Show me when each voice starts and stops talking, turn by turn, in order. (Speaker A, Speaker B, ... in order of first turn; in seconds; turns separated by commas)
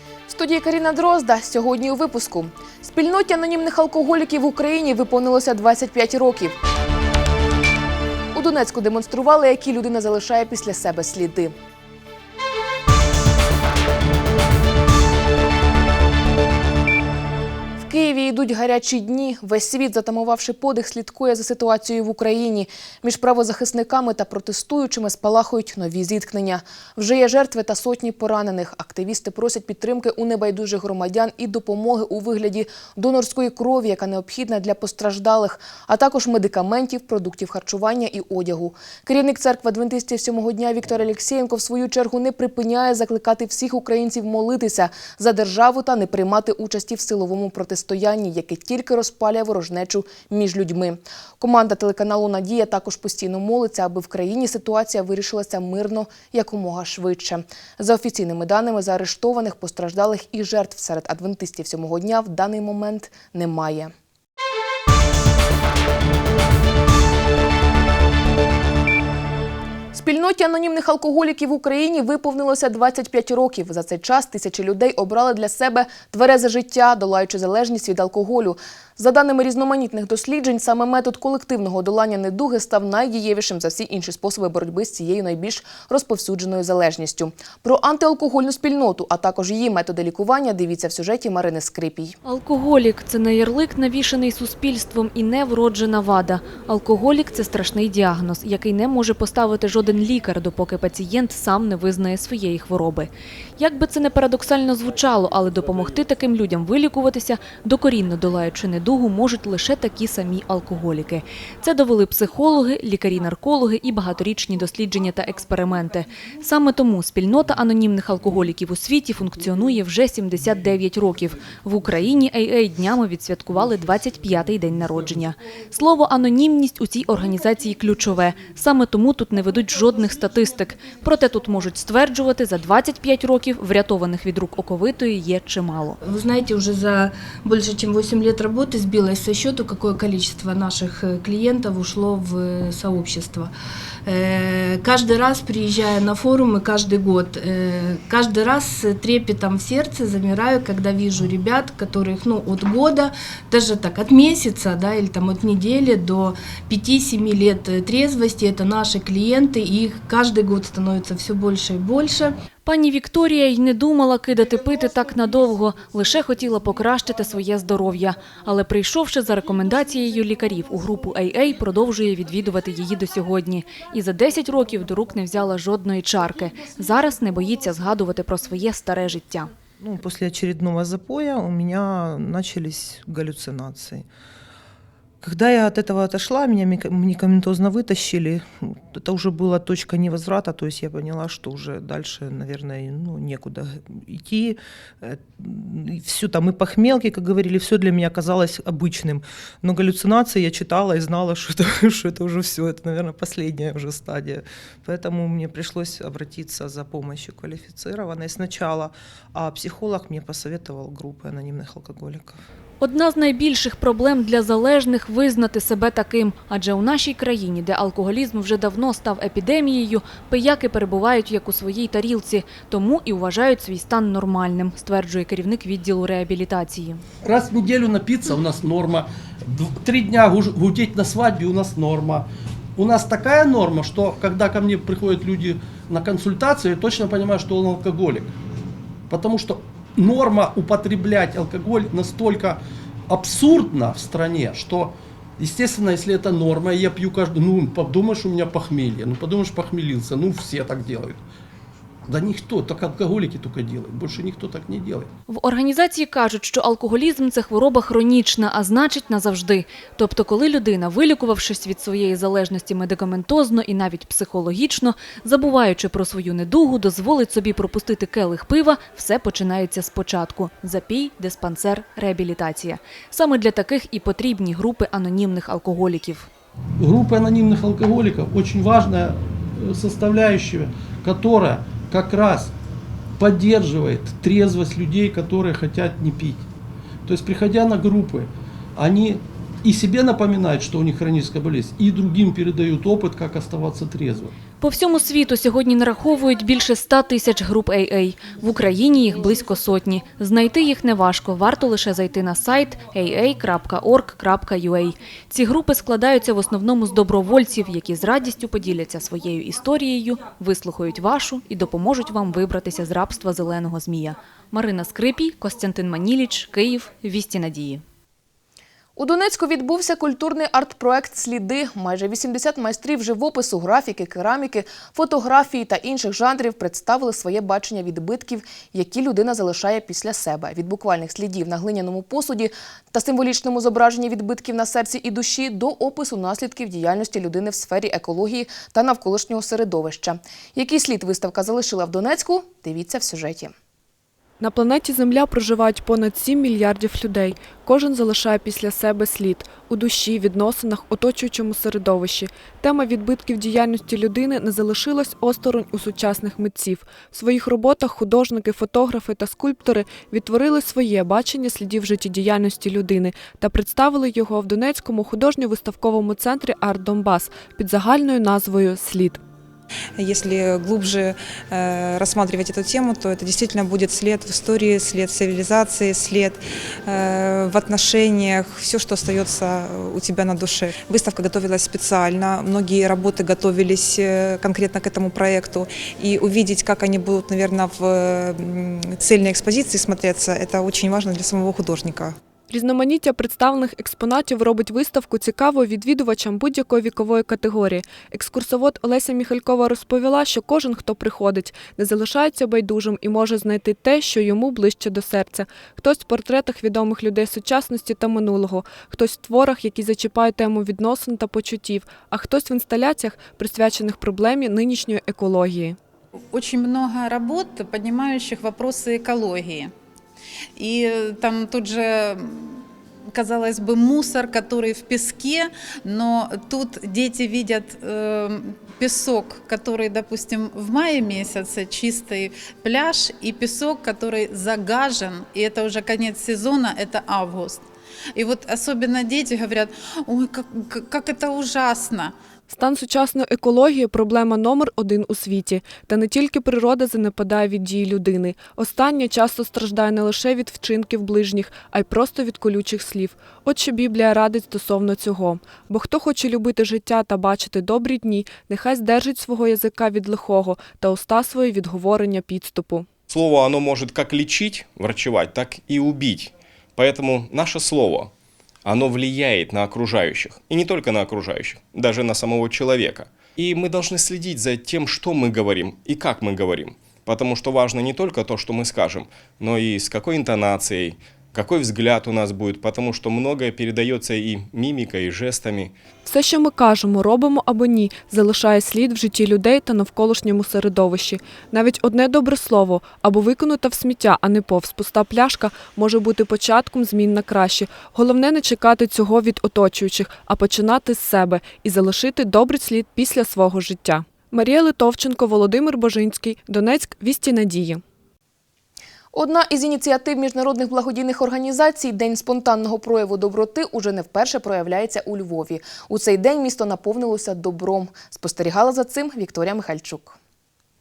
Speaker A: 0.3-6.6, Speaker A: 8.3-11.6, Speaker A: 17.8-63.9, Speaker A: 69.9-92.2, Speaker B: 92.2-136.0, Speaker C: 136.0-143.5, Speaker C: 144.1-162.4, Speaker B: 162.7-179.5, Speaker D: 179.8-184.1, Speaker D: 185.2-212.4, Speaker B: 212.8-227.0, Speaker E: 227.2-238.3, Speaker E: 239.1-251.2, Speaker E: 252.1-255.1, Speaker B: 255.3-276.3, Speaker E: 276.8-282.5, Speaker E: 283.2-286.5, Speaker E: 287.1-294.4, Speaker B: 294.6-317.8, Speaker A: 319.0-343.5, Speaker F: 344.4-369.2, Speaker G: 370.0-392.2, Speaker F: 392.5-415.8, Speaker H: 416.3-419.7, Speaker H: 420.6-422.6, Speaker H: 423.1-437.6, Speaker H: 438.2-442.1, Speaker F: 442.5-462.9, Speaker I: 463.1-468.1, Speaker I: 468.6-485.8, Speaker F: 486.1-507.8, Speaker A: 509.1-520.2